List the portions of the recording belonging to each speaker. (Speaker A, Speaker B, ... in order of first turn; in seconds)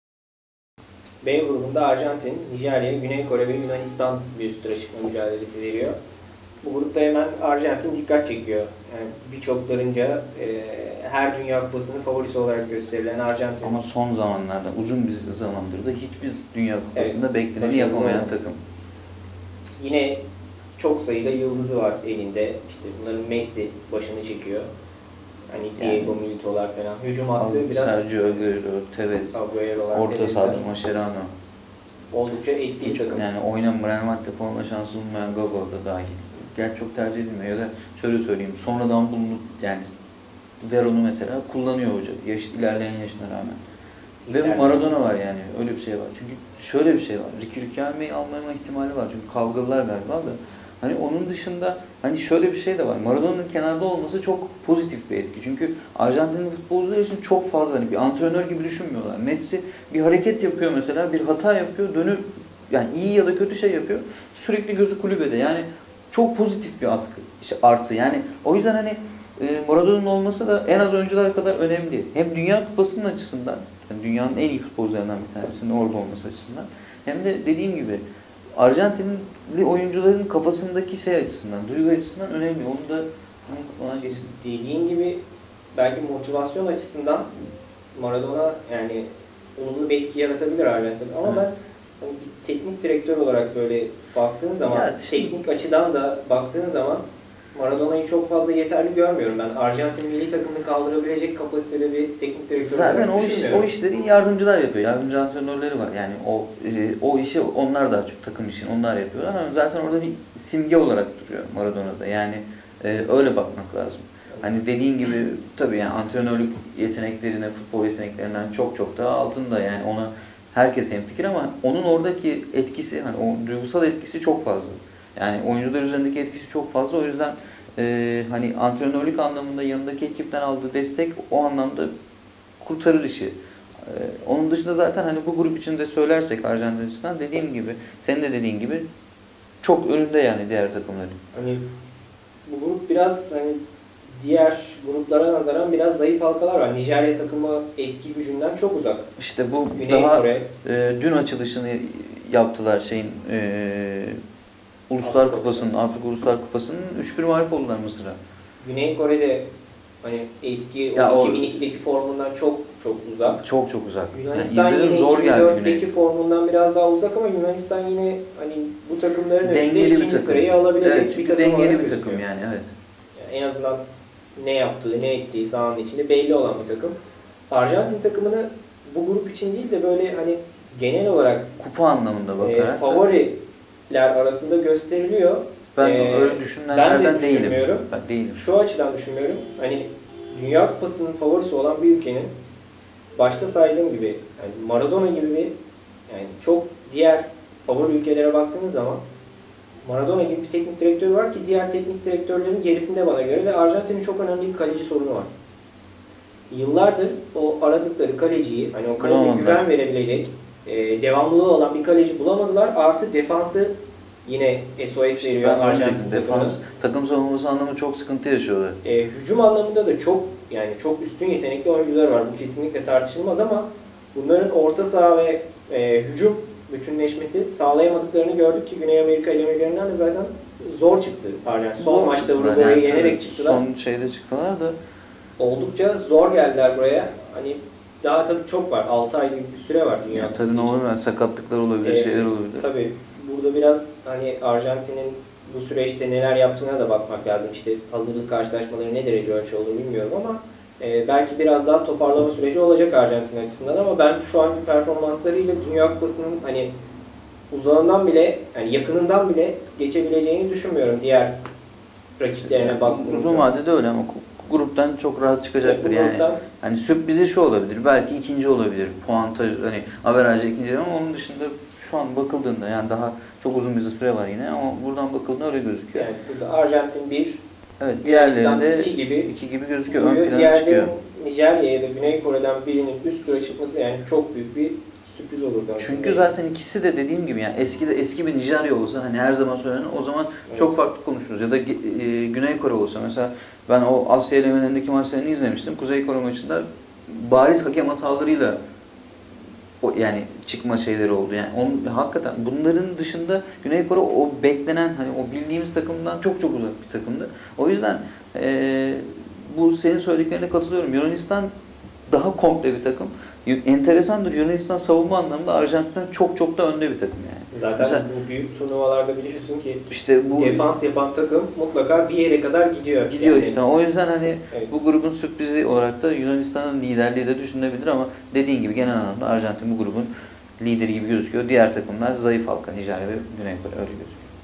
Speaker A: 1.2-6.0, 6.6-13.8, 16.9-18.3, 19.8-20.2, 20.8-24.7, 25.5-28.4, 29.3-30.7, 32.1-33.2, 44.2-45.0, 84.0-85.2, 85.7-87.3, 87.9-89.1, 89.6-103.7, 114.3-114.6, 141.3-141.7, 142.5-143.6, 144.1-149.1, 149.8-150.5, 155.0-155.9, 158.6-159.5, 160.0-163.4, 164.1-172.2, 173.2-173.8, 174.4-177.0, 177.5-181.5, 182.4-183.4, 183.9-192.3, 193.2-195.5, 196.1-199.0, 199.8-205.3, 206.5-216.6, 218.8-233.6, 235.4-240.8, 241.8-256.7, 257.5-261.4, 262.2-263.5, 265.6-266.4, 275.9-277.4, 278.0-279.3, 279.9-286.3, 290.5-290.7, 317.5-323.6, 324.5-324.8
Speaker B: 13.6-18.6, 25.8-26.1, 27.4-29.4, 29.9-31.3, 32.8-39.9, 40.6-43.6, 44.3-78.0, 78.6-84.3, 94.6-95.5, 102.6-131.9, 132.6-138.9, 139.6-141.2, 149.2-154.2, 154.9-158.2, 160.9-161.5, 163.2-165.9, 169.4-172.7, 181.6-183.1, 185.8-188.4, 209.0-209.7, 215.2-218.8, 231.8-234.8, 240.1-242.7, 262.4-276.1, 277.8-280.9, 285.8-298.6, 299.8-311.5, 312.1-318.1, 319.9-320.7, 323.1-334.3